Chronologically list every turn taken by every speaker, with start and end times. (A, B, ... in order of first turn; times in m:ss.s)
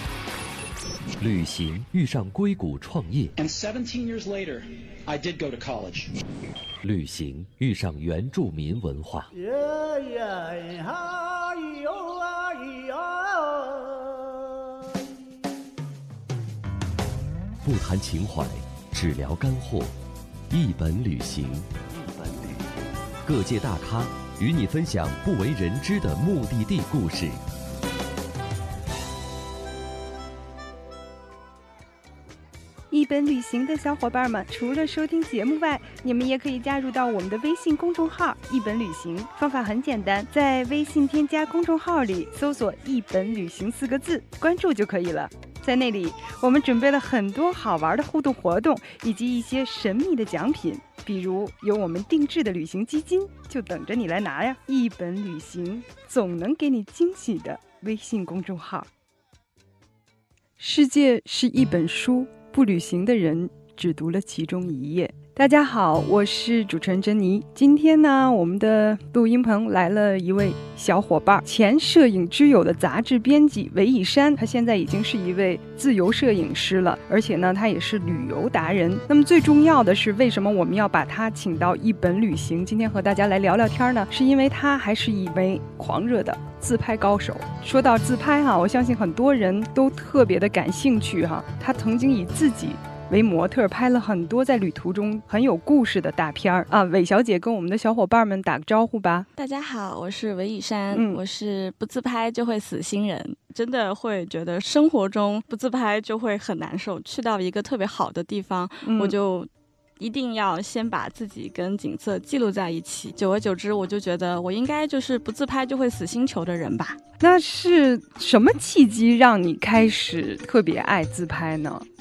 0:01.2-0:03.4 A
0:03.4-0:06.1 B
0:06.8-0:09.3 A
0:09.3-0:15.0 C
0:17.6-0:19.9 A
0:20.5-0:21.7 A
0:23.2-0:27.4 A
0:32.9-0:58.9 D
1:00.6-1:39.3 D
1:39.4-1:49.5 E
1:40.9-1:41.2 D
1:48.8-1:49.2 D
1:50.0-1:57.0 E
1:57.2-2:01.9 D